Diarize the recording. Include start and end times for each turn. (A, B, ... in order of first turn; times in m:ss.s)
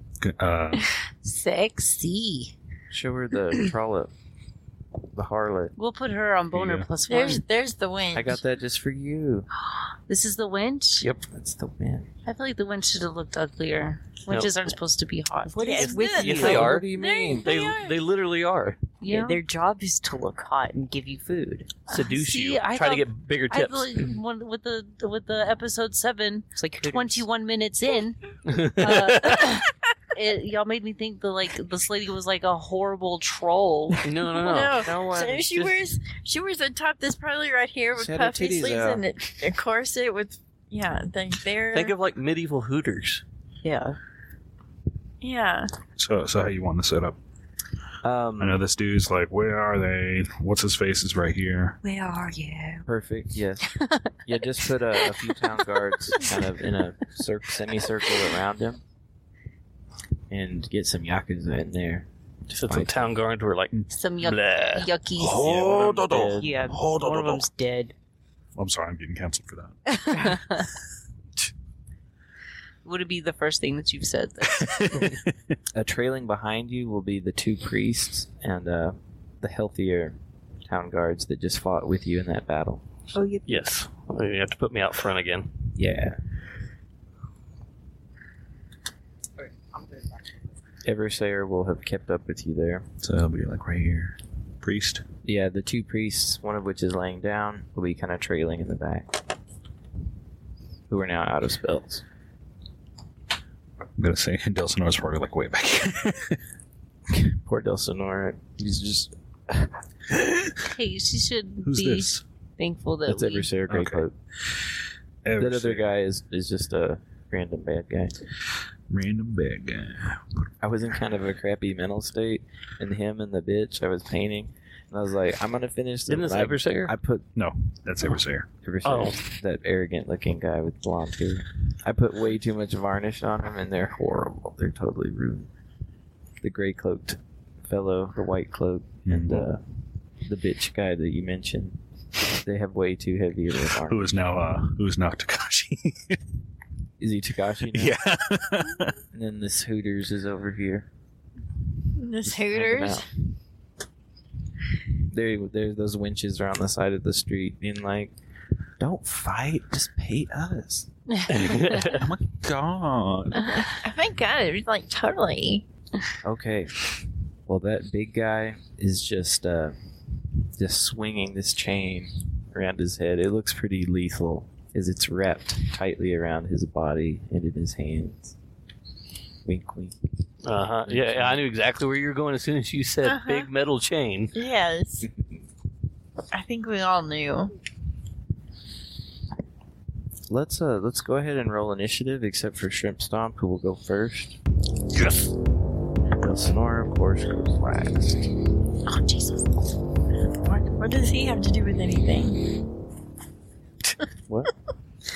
0:00.2-0:00.9 A
0:00.7-0:02.5 B
0:02.9-0:04.1 C
0:05.1-0:05.7 C
0:05.8-0:07.4 B
0:06.5-0:06.9 A
0:07.1-0:08.4 D
0:08.1-0:09.5 C
0:09.6-0:11.1 B
0:11.3-0:12.1 C
0:12.2-0:16.1 B
0:14.3-0:14.5 E
0:15.4-0:16.8 F
0:15.6-0:18.0 D
0:15.8-0:18.8 E
0:16.4-0:17.5 C
0:19.0-0:19.4 B
0:19.0-0:21.7 F
0:21.9-0:24.1 E
0:21.9-0:34.1 B
0:26.6-0:27.2 F
0:28.5-0:29.5 E
0:34.0-0:35.0 E
0:34.4-0:41.9 D
0:34.7-0:35.7 C
0:37.9-0:39.0 C
0:41.7-0:43.2 E
0:43.6-0:44.0 F
0:45.2-0:45.7 D
0:46.0-0:47.2 A
0:48.0-0:48.6 C
0:48.4-0:51.8 A
0:51.8-0:52.9 F
0:52.8-0:58.8 C
1:00.3-1:02.1 C
1:02.5-1:04.9 E
1:02.6-1:02.9 C
1:03.9-1:05.5 B
1:05.2-1:07.3 A
1:05.2-1:07.1 C
1:06.3-1:07.9 F
1:08.6-1:10.4 A
1:09.9-1:10.6 B
1:12.8-1:15.0 B
1:14.5-1:15.3 A
1:15.7-1:22.8 C
1:23.4-1:25.6 E
1:25.8-1:26.2 C
1:30.8-1:32.9 C
1:33.0-1:35.0 A
1:35.2-1:39.2 C
1:40.9-1:42.0 C
1:44.0-1:46.4 A
1:47.1-1:50.2 C
1:50.6-1:53.5 B
1:51.6-1:52.2 A
1:53.0-1:54.1 C
1:53.7-1:54.0 A
1:55.2-1:55.9 A
1:55.4-1:58.2 C
1:58.9-2:00.2 A
2:00.6-2:07.2 C
2:06.1-2:06.9 E
2:07.4-2:08.5 A
2:08.6-2:15.5 C
2:08.8-2:09.2 E
2:16.4-2:19.6 C
2:19.1-2:19.5 A
2:20.2-2:21.8 C
2:22.3-2:24.2 C
2:23.8-2:26.2 A
2:27.0-2:28.0 C
2:27.7-2:29.0 A
2:29.1-2:30.9 C
2:32.0-2:33.0 D
2:32.2-2:33.1 C
2:35.1-2:38.1 C
2:38.8-2:40.9 C
2:41.3-2:42.1 E
2:41.3-2:43.6 A
2:43.7-2:45.6 D
2:46.2-2:49.7 C
2:50.5-2:58.3 C
2:59.4-3:00.0 C
3:00.4-3:04.3 E
3:00.9-3:01.4 C
3:03.0-3:03.5 D
3:04.3-3:05.1 D
3:06.3-3:07.5 D
3:10.3-3:14.4 C
3:16.2-3:18.2 C
3:20.4-3:22.6 D